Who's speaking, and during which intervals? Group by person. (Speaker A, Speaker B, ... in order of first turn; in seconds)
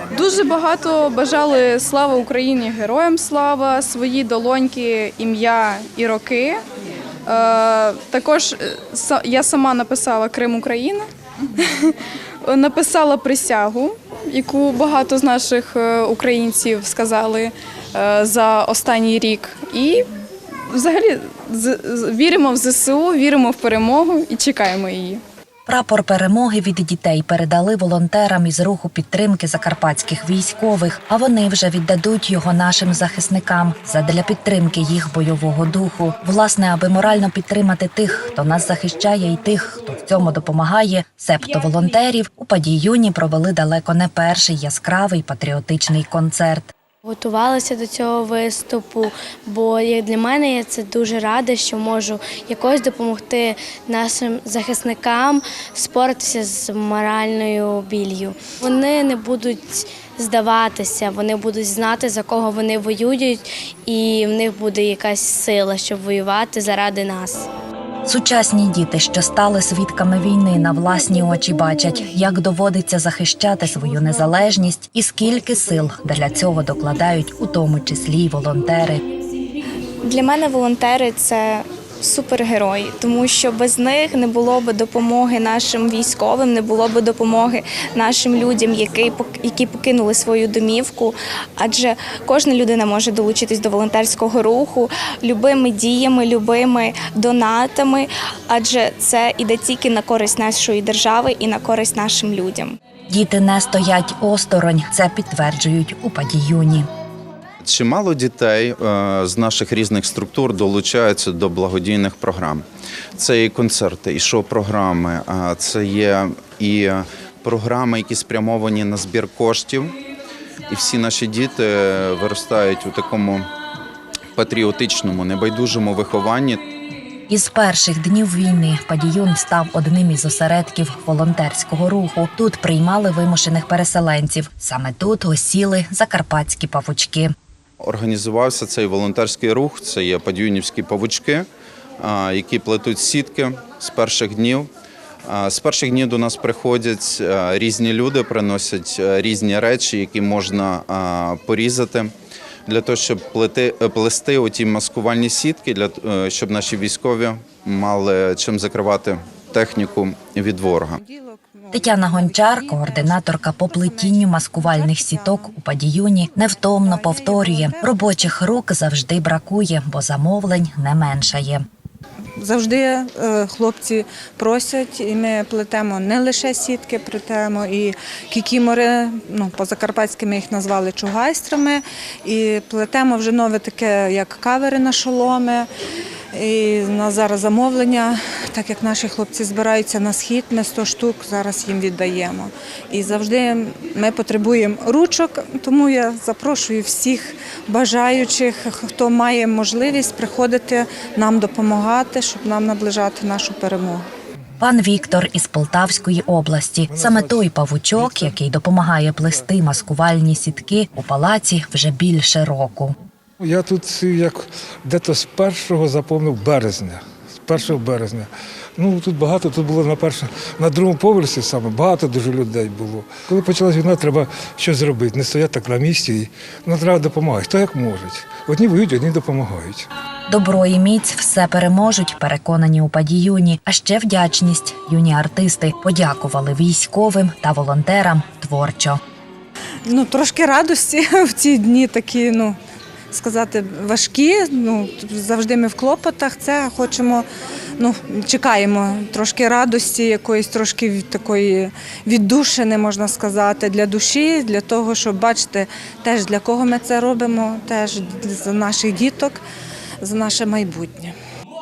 Speaker A: 0.1-6.6, 7.3-20.1, 20.7-25.2
Speaker B: 25.7-46.7, 68.1-79.0, 103.1-106.9, 127.3-137.3, 161.7-171.7, 204.6-212.9, 230.3-239.0
Speaker C: 47.0-67.5
Speaker D: 80.0-102.8
Speaker E: 107.6-112.6, 113.2-120.0, 120.7-123.5, 124.4-126.6, 137.8-141.5, 142.0-144.7, 145.3-152.1, 152.7-161.0
Speaker F: 161.0-165.6, 166.4-168.3, 172.4-185.7, 186.3-204.1, 239.9-242.6, 243.1-247.3, 247.8-259.4, 260.0-261.1
Speaker G: 206.9-208.4, 213.4-229.9